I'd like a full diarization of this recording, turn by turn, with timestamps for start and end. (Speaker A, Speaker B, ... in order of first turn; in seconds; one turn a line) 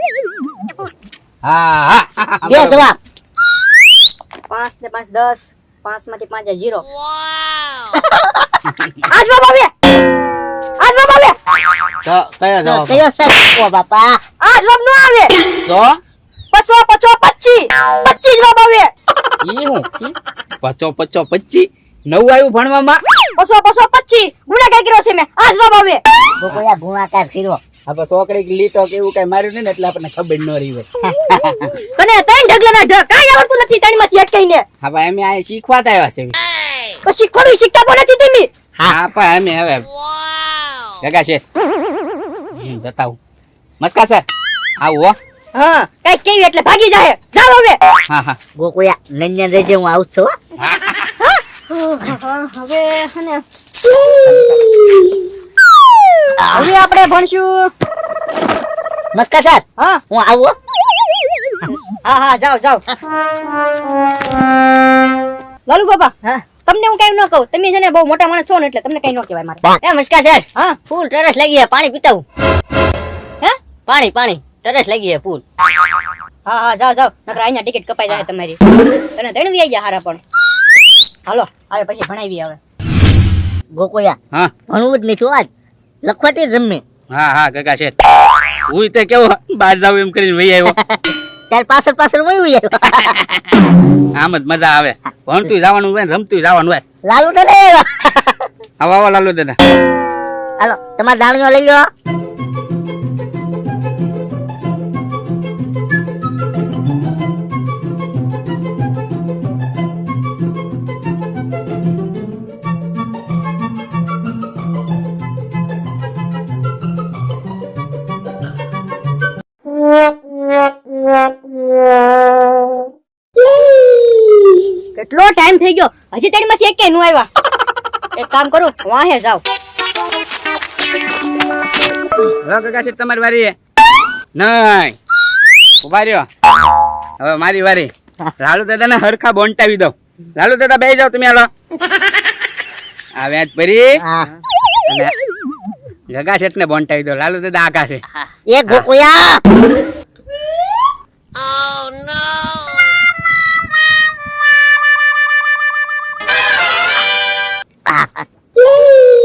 Speaker A: 1.4-2.9
Speaker B: 2.4-3.0
Speaker C: 4.5-6.8
Speaker B: 7.9-8.5
Speaker C: 9.1-9.7
Speaker C: 10.8-11.4
Speaker A: 12.0-13.0
Speaker B: 12.6-14.2
Speaker C: 14.4-15.3
Speaker A: 15.7-16.0
Speaker C: 16.5-18.9
Speaker A: 19.4-20.0
Speaker A: 20.6-23.0
Speaker C: 23.4-26.0
Speaker B: 26.4-27.6
Speaker A: 27.9-31.7
Speaker C: 31.9-34.6
Speaker A: 34.8-36.4
Speaker C: 37.0-38.5
Speaker A: 38.9-39.9
Speaker A: 41.0-41.4
Speaker A: 42.5-43.2
Speaker A: 43.8-44.2
Speaker A: 44.8-45.1
Speaker C: 45.5-47.8
Speaker A: 48.1-48.4
Speaker B: 48.5-50.3
Speaker A: 50.6-51.1
Speaker C: 51.2-53.4
Speaker B: 56.4-56.7
Speaker C: 56.5-57.7
Speaker B: 59.1-60.5
Speaker C: 62.0-62.8
Speaker C: 65.7-66.1
Speaker C: 66.6-69.6
Speaker D: 69.8-72.2
Speaker D: 73.9-75.4
Speaker C: 76.5-78.6
Speaker C: 79.2-80.2
Speaker C: 81.3-82.6
Speaker B: 83.7-84.2
Speaker B: 84.7-85.5
Speaker B: 86.0-86.8
Speaker A: 87.1-87.9
Speaker A: 88.7-90.7
Speaker B: 90.7-93.2
Speaker A: 93.0-93.5
Speaker A: 94.2-96.8
Speaker B: 97.1-98.4
Speaker A: 98.8-99.6
Speaker B: 100.6-101.8
Speaker C: 124.9-127.3
Speaker C: 128.2-129.4
Speaker A: 132.4-133.5
Speaker A: 134.3-134.9
Speaker A: 135.8-136.3
Speaker A: 137.2-141.5
Speaker A: 143.2-144.0
Speaker B: 144.0-144.3
Speaker A: 144.9-145.1
Speaker A: 146.1-148.0
Speaker B: 148.5-149.4
Speaker B: 157.9-158.2